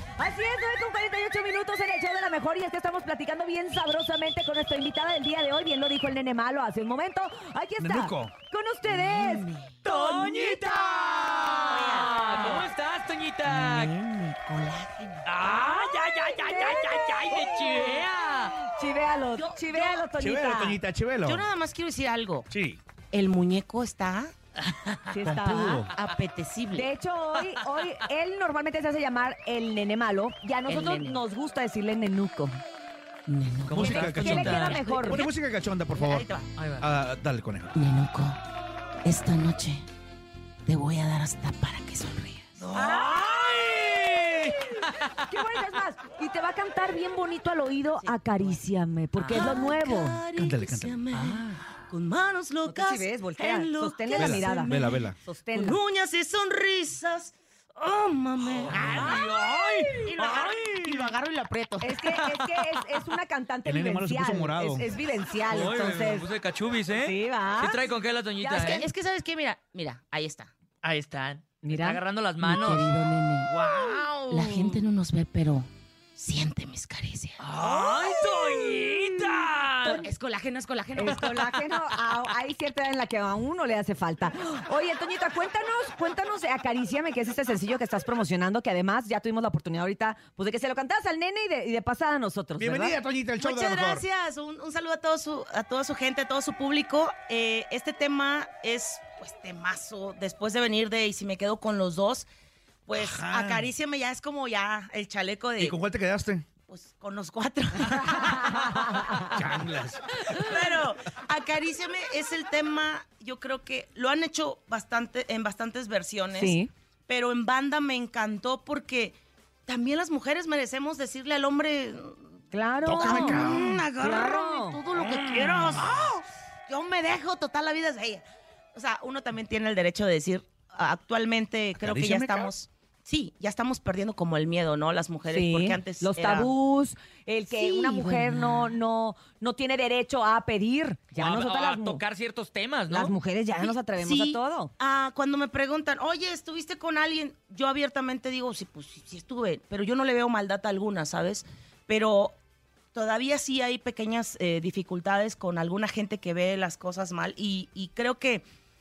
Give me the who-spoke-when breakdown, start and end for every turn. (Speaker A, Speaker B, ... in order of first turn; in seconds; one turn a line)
Speaker A: 0.2-9.4
Speaker B: 7.8-8.3
Speaker C: 8.8-10.7
Speaker D: 9.8-13.9
Speaker C: 11.5-12.7
Speaker C: 13.4-15.3
Speaker D: 15.2-18.6
Speaker A: 16.4-18.0
Speaker A: 18.6-20.8
Speaker C: 19.4-20.1
Speaker B: 20.2-21.4
Speaker C: 21.2-22.5
Speaker B: 22.5-22.8
Speaker C: 23.1-24.3
Speaker D: 24.7-25.0
Speaker A: 25.1-25.9
Speaker B: 25.2-25.9
Speaker C: 25.9-26.9
Speaker A: 26.8-32.6
Speaker C: 30.7-31.2
Speaker C: 33.3-35.3
Speaker D: 33.7-35.2
Speaker B: 33.7-36.3
Speaker A: 34.2-35.2
Speaker C: 36.0-36.5
Speaker D: 36.6-36.9
Speaker B: 36.8-37.7
Speaker C: 37.8-38.4
Speaker C: 39.0-39.9
Speaker C: 40.7-43.0
Speaker A: 42.7-43.4
Speaker D: 42.9-45.1
Speaker A: 45.3-50.2
Speaker C: 47.8-48.6
Speaker D: 49.2-49.5
Speaker C: 49.2-59.2
Speaker B: 50.4-51.0
Speaker D: 51.2-51.4
Speaker A: 52.7-55.8
Speaker B: 54.1-55.2
Speaker D: 58.4-61.1
Speaker A: 58.9-59.2
Speaker C: 60.1-62.1
Speaker A: 61.8-66.3
Speaker B: 63.6-64.9
Speaker D: 65.5-68.9
Speaker A: 66.9-67.8
Speaker A: 68.4-68.9
Speaker C: 68.6-70.5
Speaker D: 70.8-72.9
Speaker A: 71.6-72.0
Speaker C: 72.4-73.5
Speaker D: 73.5-74.8
Speaker C: 74.3-78.0
Speaker D: 77.4-80.1
Speaker C: 79.8-81.6
Speaker A: 81.0-93.0
Speaker B: 92.6-94.0
Speaker C: 93.4-102.3
Speaker C: 102.9-105.8
Speaker B: 102.9-103.7
Speaker B: 105.6-106.5
Speaker C: 106.7-109.6
Speaker A: 108.4-109.1
Speaker B: 109.2-110.4
Speaker C: 110.2-119.2
Speaker A: 116.3-116.7
Speaker C: 119.7-128.2
Speaker A: 122.5-123.5
Speaker B: 122.8-123.8
Speaker A: 124.0-124.8
Speaker C: 128.8-136.5
Speaker B: 131.8-132.5
Speaker A: 135.3-142.0
Speaker C: 137.5-138.8
Speaker D: 141.2-143.1
Speaker A: 142.9-144.7
Speaker C: 143.6-152.3
Speaker C: 152.9-158.4